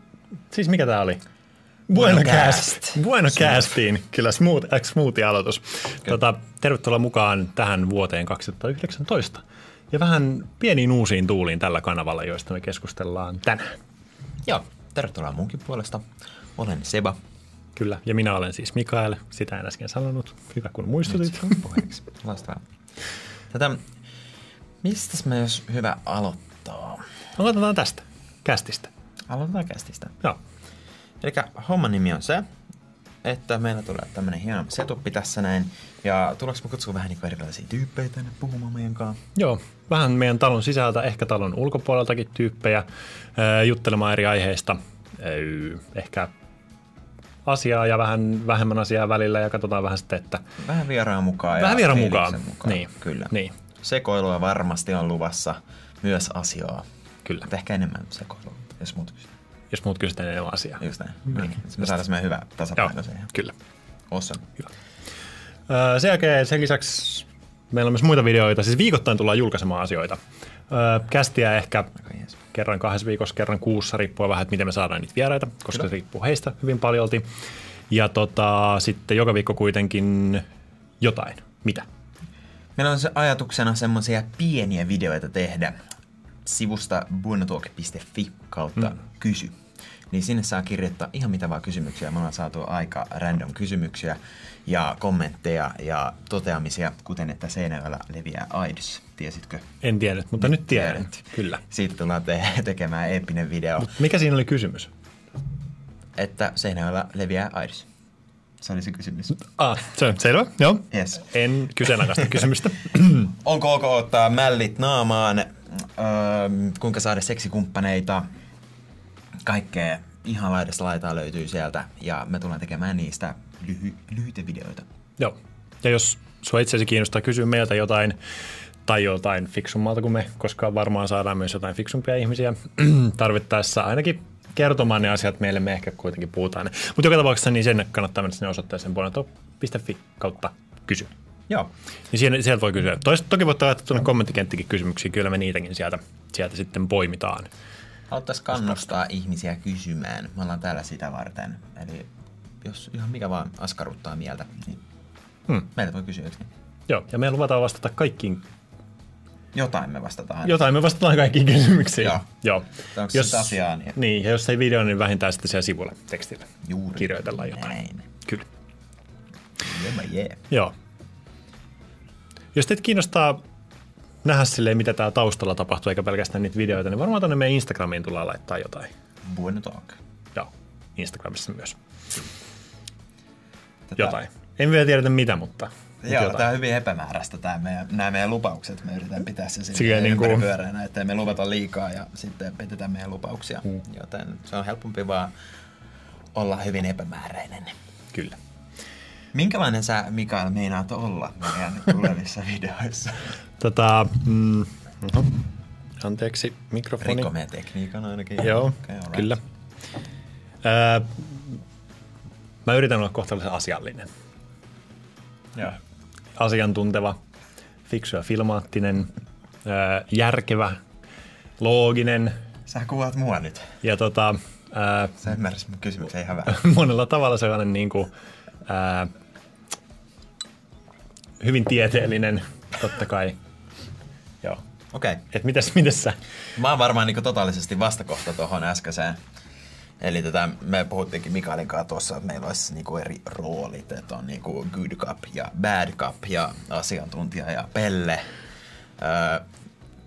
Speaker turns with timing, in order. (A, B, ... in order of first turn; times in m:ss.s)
0:00.5-0:01.2 A
0:01.9-0:03.8 B
0:01.9-0:13.7 A
0:14.4-0:17.2 B
0:17.8-0:21.7 A
0:21.1-0:22.6 B
0:23.5-0:23.8 B
0:24.8-0:27.0 B
0:27.3-0:28.9 A
0:29.3-0:30.2 B
0:31.2-0:32.4 B
0:33.2-0:39.2 B
0:39.3-0:42.8 A
0:43.4-0:46.3 A
0:47.4-0:50.4 A
0:50.6-0:56.8 B
0:51.5-0:53.6 A
0:57.4-0:59.3 B
0:59.7-1:00.8 A
1:00.8-1:03.3 B
1:02.8-1:03.5 A
1:04.1-1:04.5 B
1:05.7-1:10.2 A
1:10.7-1:11.9 A
1:12.5-1:17.2 A
1:17.9-1:20.4 A
1:21.0-1:21.8 A
1:22.8-1:25.8 B
1:26.4-1:29.6 B
1:30.1-1:39.6 B
1:39.8-1:41.6 A
1:40.4-1:43.9 B
1:43.8-1:44.9 A
1:46.2-1:47.9 B
1:48.6-1:49.4 B
1:49.4-1:53.3 A
1:50.9-1:51.3 B
1:53.2-1:58.2 B
1:59.4-2:04.8 B
2:05.2-2:08.2 A
2:08.8-2:21.1 A
2:22.1-2:27.5 A
2:28.1-2:32.1 B
2:32.6-2:34.8 B
2:35.7-2:36.5 B
2:36.9-2:38.4 A
2:39.5-2:40.6 B
2:40.4-2:47.7 A
2:42.9-2:44.0 B
2:46.6-2:48.1 B
2:49.6-2:50.4 B
2:52.5-2:53.4 A
2:54.2-2:58.9 A
2:59.2-3:00.0 B
3:00.3-3:01.8 A
3:03.9-3:04.2 B
3:04.0-3:06.4 A
3:06.0-3:15.3 B
3:09.7-3:10.5 A
3:16.3-3:17.7 B
3:19.3-3:23.3 B
3:23.6-3:25.4 A
3:26.0-3:27.3 A
3:27.0-3:29.3 B
3:28.4-3:29.4 A
3:30.6-3:31.6 A
3:32.6-3:34.1 A
3:36.4-3:37.2 A
3:37.9-3:39.1 A
3:39.6-3:40.8 A
3:41.6-3:42.3 A
3:42.7-3:43.7 B
3:43.8-3:45.2 A
3:45.2-3:46.6 B
3:46.5-3:48.1 A
3:48.6-3:49.1 A
3:51.4-3:53.4 A
3:54.9-3:55.2 B
3:55.3-3:56.2 A
3:56.5-3:59.2 B
4:00.0-4:08.2 B
4:09.0-4:09.4 B